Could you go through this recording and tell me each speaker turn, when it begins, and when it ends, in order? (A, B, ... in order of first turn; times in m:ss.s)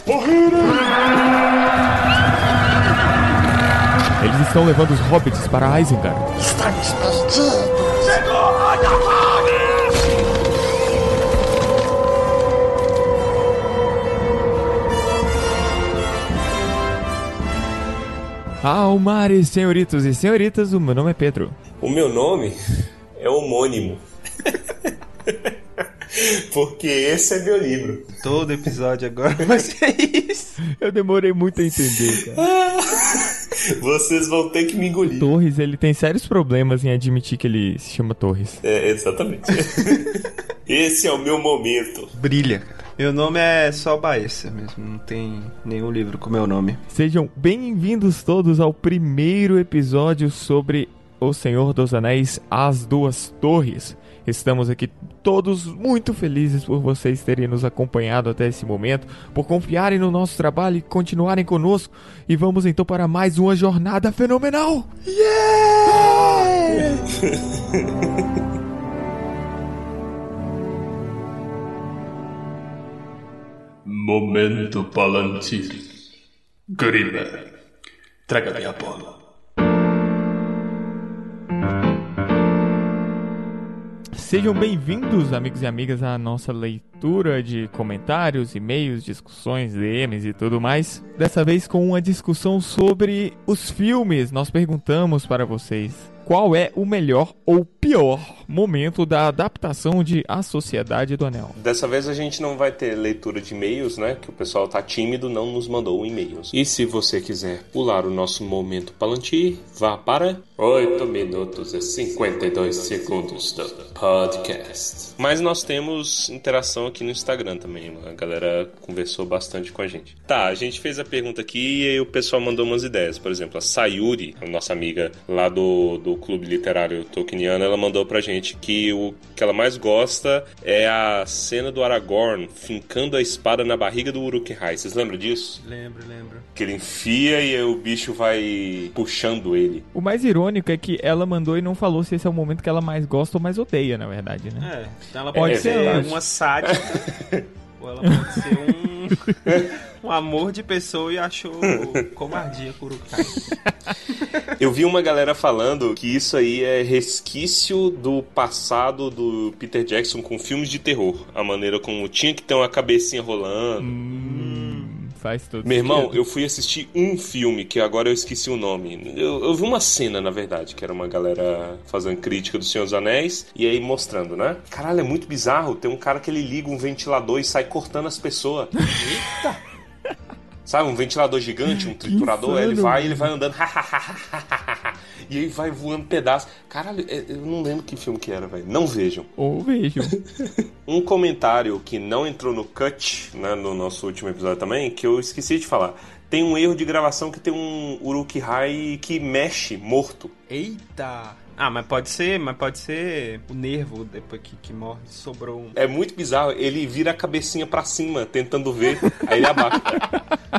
0:00.1-0:00.9 A
0:04.2-0:06.3 B
0:06.5-0:09.1 A
0:18.6-0:21.6 B
0:21.8-0:24.0 C
0:24.8-0:28.2 C
0:28.2-0:30.6 D
0:30.6-0:32.5 B
0:32.1-0:35.3 C
0:35.1-0:38.6 B
0:38.6-0:42.1 C
0:42.2-0:46.8 D
0:46.9-1:04.9 B
1:05.0-1:07.1 D
1:06.7-1:08.4 C
1:13.8-1:15.8 E
1:16.7-1:17.6 E
1:18.3-1:19.2 E
1:24.1-1:41.6 B
1:41.5-2:15.6 C
2:15.6-2:16.5 D
2:16.5-2:19.9 C
2:19.9-2:24.7 B
2:24.6-2:27.1 D
2:25.3-2:26.2 B
2:25.4-2:27.5 C
2:27.8-2:33.5 D
2:29.5-2:29.8 C
2:31.6-2:32.0 C
2:34.2-2:34.5 D
2:34.5-2:44.6 C
2:43.8-2:46.2 B
2:45.6-2:58.9 C
2:58.9-2:59.6 D
3:00.6-3:09.3 C
3:02.0-3:03.3 B
3:09.4-3:10.2 B
3:10.2-3:20.3 C
3:20.5-3:25.8 D
3:25.8-3:30.2 C